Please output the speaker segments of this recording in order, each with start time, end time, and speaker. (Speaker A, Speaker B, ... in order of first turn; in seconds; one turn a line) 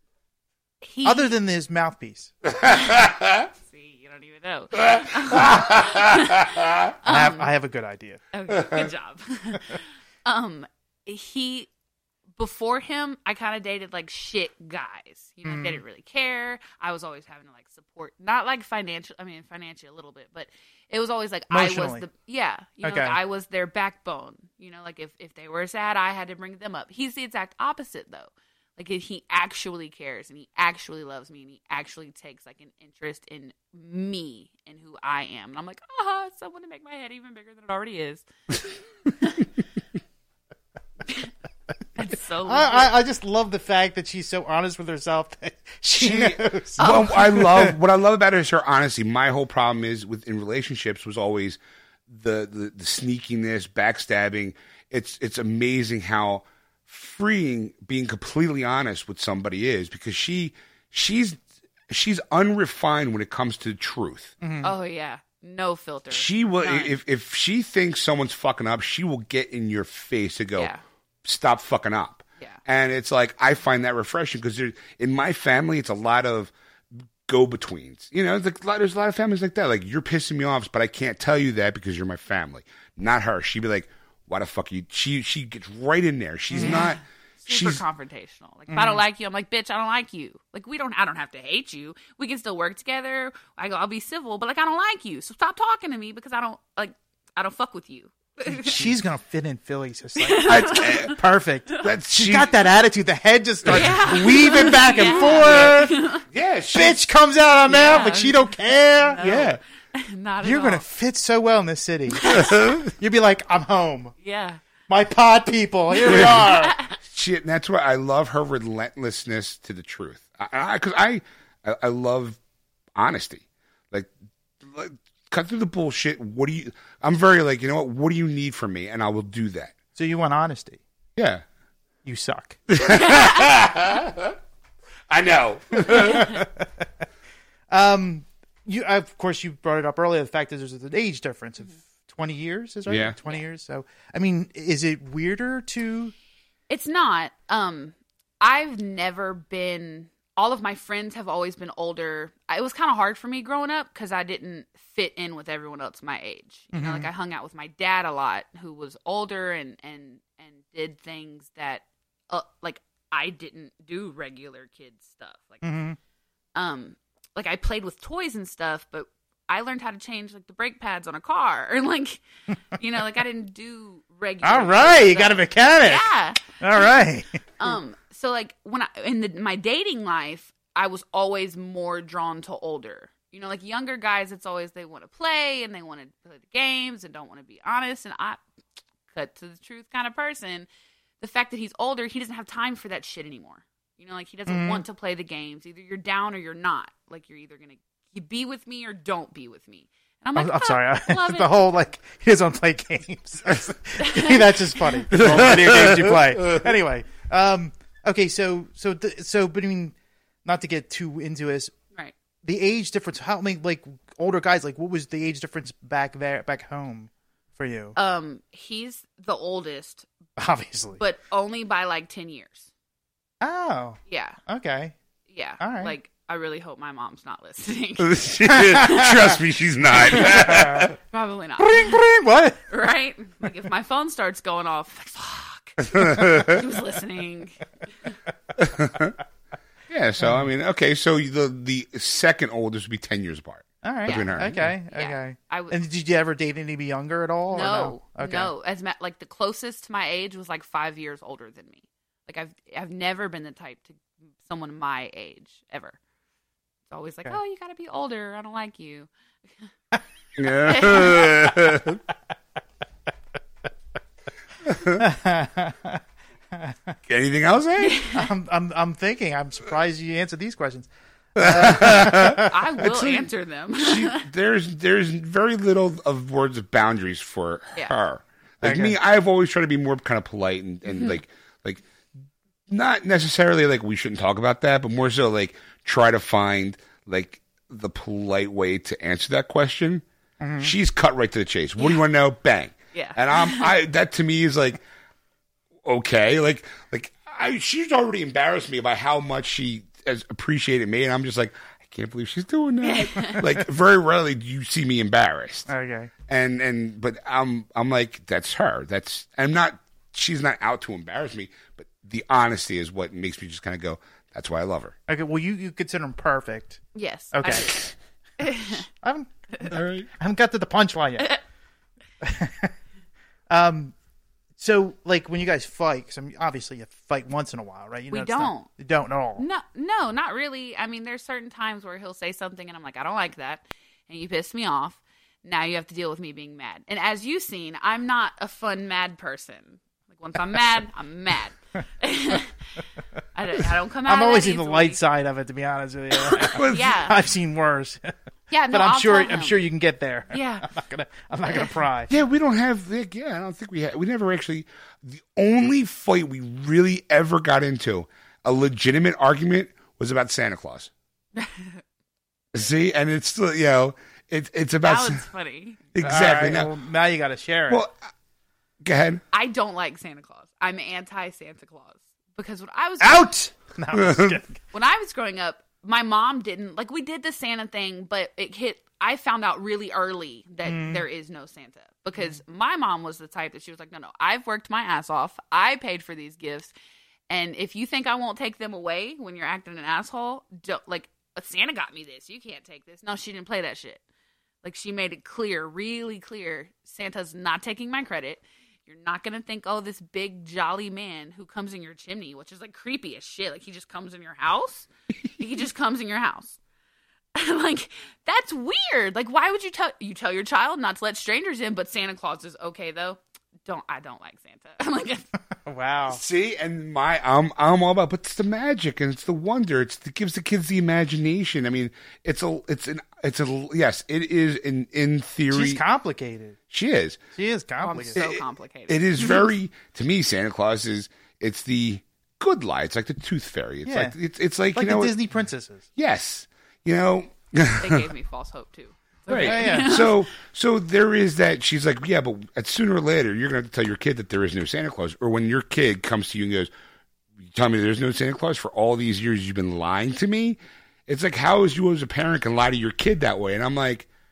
Speaker A: 0.8-1.3
Speaker B: 1.0-2.3
Speaker C: 2.5-3.5
Speaker A: 2.7-7.5
Speaker C: 4.8-6.9
Speaker B: 7.0-8.2
Speaker A: 8.3-11.7
Speaker A: 12.4-39.5
Speaker B: 15.4-15.8
Speaker B: 21.5-22.1
Speaker B: 22.8-23.2
Speaker A: 42.0-42.9
Speaker B: 42.4-47.7
Speaker C: 46.0-64.3
Speaker A: 46.8-47.2
Speaker B: 64.4-64.7
Speaker A: 64.6-66.9
Speaker C: 66.1-70.7
Speaker C: 71.2-76.5
Speaker C: 77.2-87.8
Speaker B: 86.5-86.8
Speaker A: 86.6-98.8
Speaker B: 88.7-89.0
Speaker B: 98.5-106.0
Speaker A: 100.2-101.2
Speaker C: 100.5-101.2
Speaker C: 101.8-102.5
Speaker C: 103.6-104.1
Speaker A: 103.7-106.2
Speaker C: 105.2-105.8
Speaker C: 106.3-107.0
Speaker B: 106.7-109.2
Speaker A: 107.7-110.8
Speaker C: 109.2-109.6
Speaker B: 110.4-114.1
Speaker A: 112.1-112.5
Speaker C: 112.3-112.9
Speaker A: 114.2-114.6
Speaker B: 114.9-116.8
Speaker A: 116.0-117.0
Speaker C: 116.0-116.5
Speaker C: 117.0-122.4
Speaker C: 122.9-129.7
Speaker B: 129.9-130.8
Speaker C: 131.2-131.4
Speaker B: 132.0-132.6
Speaker C: 132.7-134.4
Speaker A: 133.0-133.4
Speaker C: 135.1-136.4
Speaker B: 135.8-136.8
Speaker B: 137.7-146.1
Speaker C: 142.9-143.2
Speaker A: 146.7-165.6
Speaker B: 156.7-157.1
Speaker B: 165.6-166.0
Speaker A: 166.5-172.2
Speaker A: 172.7-176.9
Speaker B: 174.4-177.7
Speaker A: 177.6-188.4
Speaker A: 189.1-190.7
Speaker A: 191.2-201.7
Speaker B: 194.5-194.8
Speaker B: 200.3-211.7
Speaker A: 204.0-205.0
Speaker C: 205.1-206.7
Speaker B: 212.4-217.9
Speaker A: 217.9-220.1
Speaker B: 220.4-221.0
Speaker A: 221.0-222.7
Speaker B: 223.4-224.9
Speaker A: 224.1-224.4
Speaker A: 225.3-229.2
Speaker B: 225.6-225.9
Speaker C: 228.0-230.9
Speaker B: 228.5-229.0
Speaker A: 230.1-232.0
Speaker B: 230.1-230.9
Speaker B: 231.6-232.6
Speaker A: 232.7-238.1
Speaker C: 235.8-236.7
Speaker C: 238.6-239.2
Speaker C: 239.9-244.7
Speaker B: 243.8-248.5
Speaker A: 244.0-245.8
Speaker A: 247.5-256.0
Speaker A: 256.9-259.1
Speaker C: 260.4-262.0
Speaker A: 260.6-261.4
Speaker C: 264.6-265.0
Speaker B: 264.8-267.0
Speaker C: 267.1-268.0
Speaker A: 267.8-268.3
Speaker B: 268.1-272.5
Speaker C: 271.4-281.8
Speaker A: 272.2-274.3
Speaker B: 278.6-278.9
Speaker C: 282.7-290.0
Speaker B: 290.4-290.7
Speaker C: 290.6-294.8
Speaker A: 292.9-293.7
Speaker C: 295.8-305.7
Speaker A: 302.8-303.4
Speaker B: 305.7-306.1
Speaker C: 306.3-314.9
Speaker B: 315.1-316.8
Speaker A: 316.9-318.9
Speaker B: 317.3-317.7
Speaker B: 319.0-321.4
Speaker C: 319.7-320.1
Speaker B: 322.2-322.7
Speaker B: 323.5-323.9
Speaker B: 324.6-329.4
Speaker A: 328.1-328.7
Speaker A: 329.4-342.6
Speaker A: 343.3-345.0
Speaker B: 344.1-348.1
Speaker C: 346.2-347.0
Speaker A: 346.4-347.2
Speaker A: 348.5-349.6
Speaker B: 348.7-352.1
Speaker A: 350.3-350.7
Speaker A: 351.5-351.7
Speaker C: 352.1-360.9
Speaker A: 361.3-361.8
Speaker C: 362.5-365.2
Speaker A: 364.8-365.8
Speaker C: 365.9-366.7
Speaker B: 366.0-367.8
Speaker C: 367.7-367.9
Speaker C: 368.8-369.2
Speaker A: 369.3-373.3
Speaker B: 373.0-374.6
Speaker C: 373.9-374.4
Speaker A: 374.7-386.7
Speaker B: 380.6-381.0
Speaker A: 387.3-394.0
Speaker A: 394.6-406.6
Speaker A: 407.3-415.3
Speaker B: 415.6-416.2
Speaker C: 416.1-425.8
Speaker B: 425.5-426.6
Speaker C: 426.7-427.2
Speaker B: 427.3-428.2
Speaker A: 427.8-429.5
Speaker C: 428.1-435.1
Speaker B: 433.9-434.2
Speaker B: 434.7-435.8
Speaker C: 435.9-438.1
Speaker A: 437.8-440.3
Speaker C: 439.3-446.7
Speaker B: 439.3-439.9
Speaker C: 447.4-454.1